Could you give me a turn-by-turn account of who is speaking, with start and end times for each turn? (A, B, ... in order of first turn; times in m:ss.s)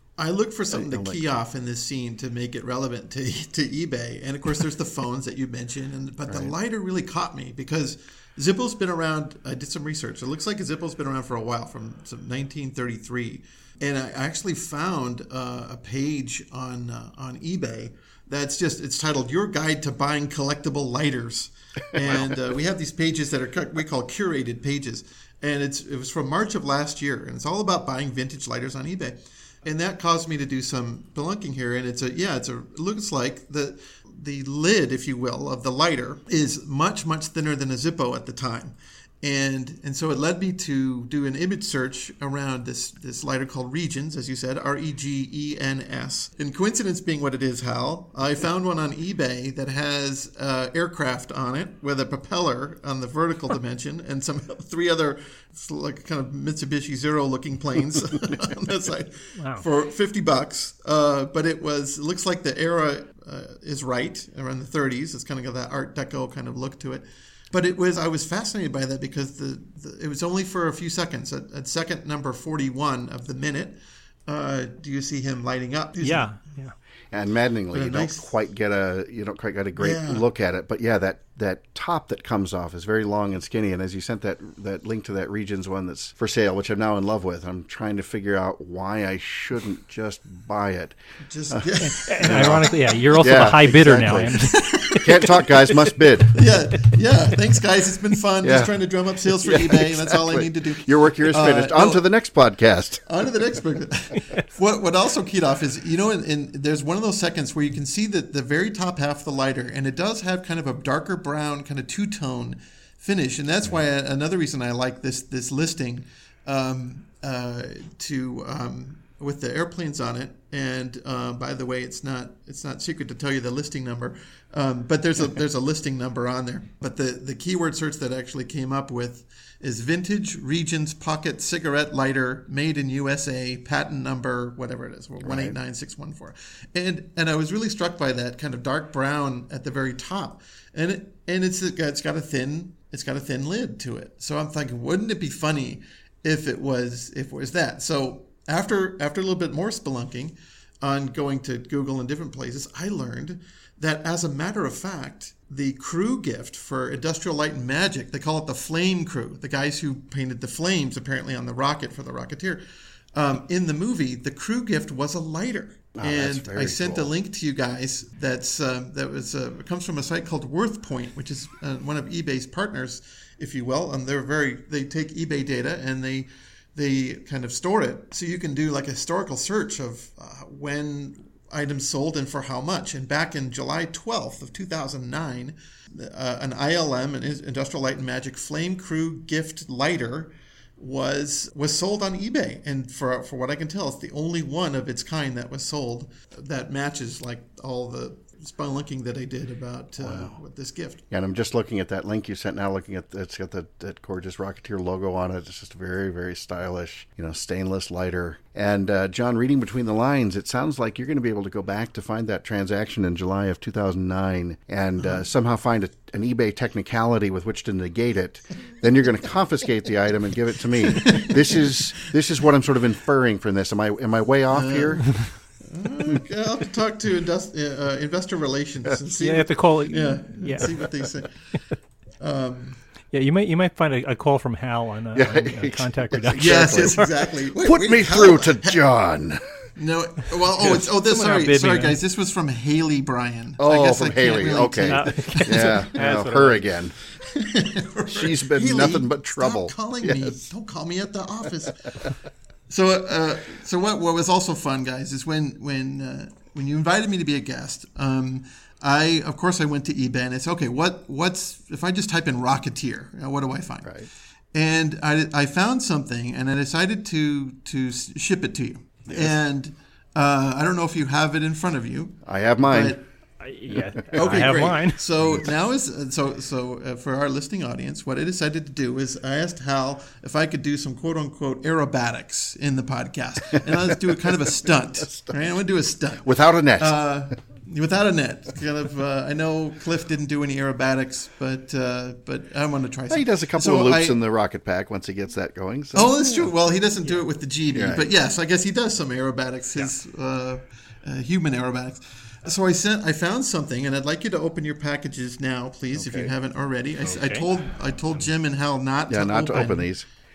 0:00.2-1:16.3 A
0:00.7-0:01.2 B
0:06.3-0:06.5 B
0:21.9-0:22.4 B
0:59.4-0:59.6 C
1:16.0-1:16.7 C
1:17.1-1:31.0 B
1:17.7-1:18.3 A
1:19.8-1:20.2 A
1:31.3-1:32.7 A
1:31.5-1:36.4 B
1:31.8-1:34.9 C
1:34.2-1:42.0 A
1:38.4-1:43.0 B
1:43.0-2:42.6 A
2:15.2-2:15.6 B
2:43.1-3:21.0 A
2:46.0-2:47.1 B
3:20.0-3:20.3 B
3:21.1-3:45.1 B
3:35.0-3:35.2 A
3:40.9-3:41.8 A
3:44.5-3:51.6 A
3:49.2-3:50.8 C
3:52.2-3:52.8 A
3:53.1-3:57.1 C
3:55.1-3:57.0 B
3:56.4-3:58.8 A
3:57.6-3:59.4 B
3:59.8-4:05.9 A
4:00.7-4:02.0 C
4:03.6-4:07.0 B
4:04.9-4:06.7 C
4:07.2-4:12.1 A
4:08.1-4:10.5 B
4:12.7-4:24.0 A
4:24.5-4:33.0 A
4:29.1-4:29.4 B
4:32.2-4:33.0 B
4:33.4-4:35.0 C
4:33.7-4:34.4 B
4:34.1-4:54.2 A
4:35.2-4:35.5 B
4:46.2-4:47.0 B
4:53.1-4:56.5 B
4:55.9-5:09.9 A
4:57.7-4:58.1 B
5:05.9-5:06.3 B
5:07.1-5:07.5 C
5:09.1-5:10.1 B